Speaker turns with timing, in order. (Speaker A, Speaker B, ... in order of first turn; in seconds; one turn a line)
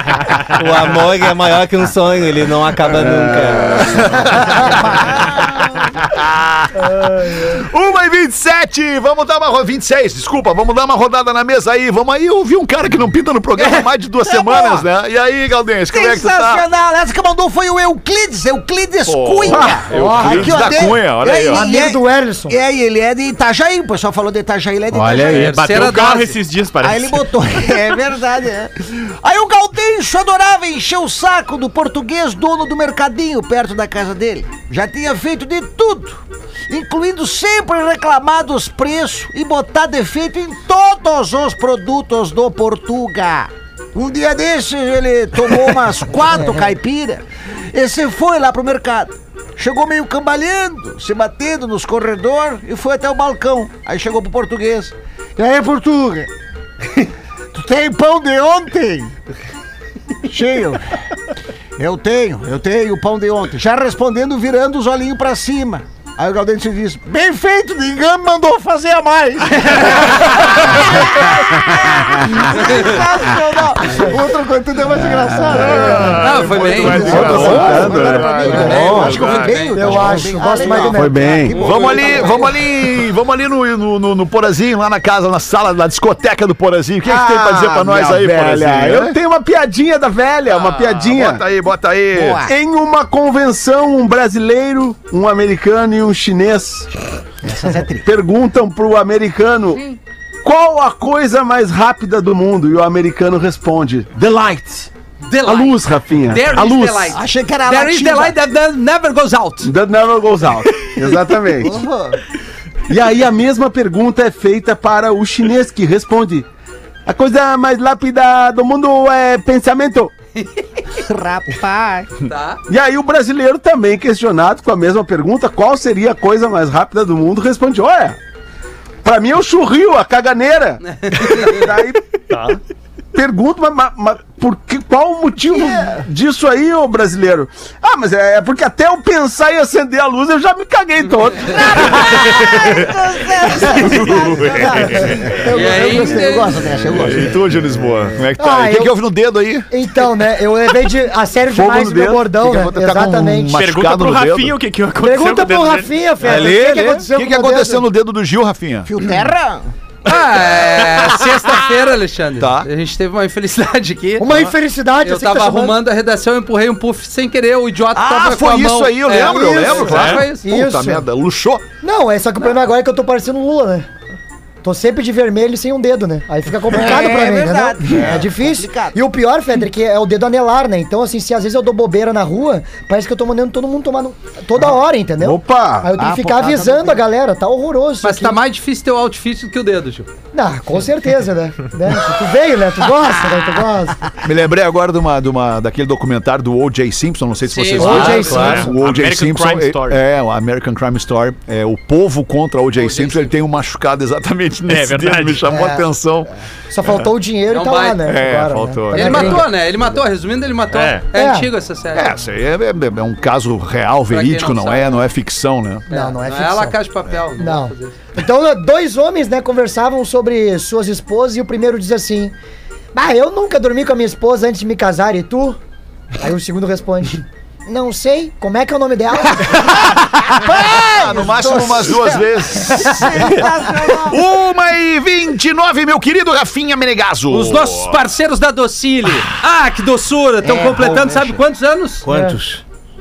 Speaker A: 0.5-4.0
Speaker B: 3.6-16.6
Speaker C: 4.9-5.6
Speaker C: 13.6-14.8
Speaker C: 15.9-25.5
Speaker B: 19.1-21.7
Speaker D: 19.9-20.9
Speaker D: 21.5-22.6
Speaker E: 25.0-27.3
Speaker F: 25.2-26.4
Speaker C: 26.8-56.3
Speaker C: 57.5-59.1
Speaker C: 60.2-60.8
Speaker C: 61.8-82.7
Speaker B: 75.5-79.5
Speaker F: 76.2-77.5
Speaker G: 76.8-78.9
Speaker A: 77.3-77.7
Speaker D: 77.8-79.1
Speaker F: 78.5-80.0
Speaker A: 78.7-79.2
Speaker D: 79.7-81.5
Speaker G: 80.8-81.6
Speaker B: 81.6-89.2
Speaker G: 87.0-91.4
Speaker B: 90.6-92.4
Speaker C: 92.1-92.5
Speaker G: 92.4-96.9
Speaker C: 97.4-98.1
Speaker G: 98.0-104.9
Speaker F: 105.2-109.7
Speaker G: 105.4-107.2
Speaker C: 107.1-108.4
Speaker G: 109.6-111.7
Speaker C: 111.6-112.2
Speaker G: 112.9-116.5
Speaker G: 117.0-120.1
Speaker F: 120.4-120.7
Speaker C: 121.0-122.2
Speaker F: 122.3-122.6
Speaker G: 122.7-128.2
Speaker G: 129.0-132.4
Speaker F: 130.9-131.7
Speaker G: 133.1-142.2
Speaker C: 141.6-147.6
Speaker E: 142.3-142.8
Speaker E: 143.5-145.2
Speaker B: 143.6-144.7
Speaker D: 144.7-146.5
Speaker F: 145.5-146.5
Speaker B: 147.0-149.7
Speaker D: 148.4-149.0
Speaker D: 149.7-153.6
Speaker G: 151.5-152.5
Speaker B: 152.8-154.6
Speaker E: 153.5-156.4
Speaker D: 155.0-157.9
Speaker A: 156.2-157.1
Speaker B: 157.1-158.9
Speaker C: 158.9-159.7
Speaker F: 160.1-170.5
Speaker B: 162.4-162.7
Speaker D: 164.2-165.8
Speaker B: 167.9-171.7
Speaker D: 169.1-171.1
Speaker E: 169.8-170.3
Speaker D: 171.8-173.9
Speaker D: 174.6-188.4
Speaker C: 176.7-179.0
Speaker G: 185.2-185.9
Speaker C: 186.0-187.0
Speaker F: 188.0-190.1
Speaker D: 190.3-194.1
Speaker B: 194.2-206.3
Speaker F: 197.4-198.7
Speaker D: 197.8-198.7
Speaker E: 198.2-200.0
Speaker F: 202.8-203.3
Speaker E: 204.7-205.4
Speaker D: 205.5-205.9
Speaker D: 206.7-209.5
Speaker F: 207.5-208.1
Speaker B: 208.0-209.4
Speaker F: 208.9-212.2
Speaker E: 210.7-211.1
Speaker D: 211.1-211.5
Speaker B: 211.9-215.9
Speaker F: 214.1-215.0
Speaker D: 215.9-216.8
Speaker F: 215.9-218.0
Speaker D: 217.4-222.3
Speaker D: 222.9-225.6
Speaker D: 226.2-229.7
Speaker B: 230.1-238.0
Speaker C: 230.3-234.2
Speaker F: 237.3-242.1
Speaker C: 240.4-241.4
Speaker A: 242.0-242.6
Speaker D: 242.1-242.4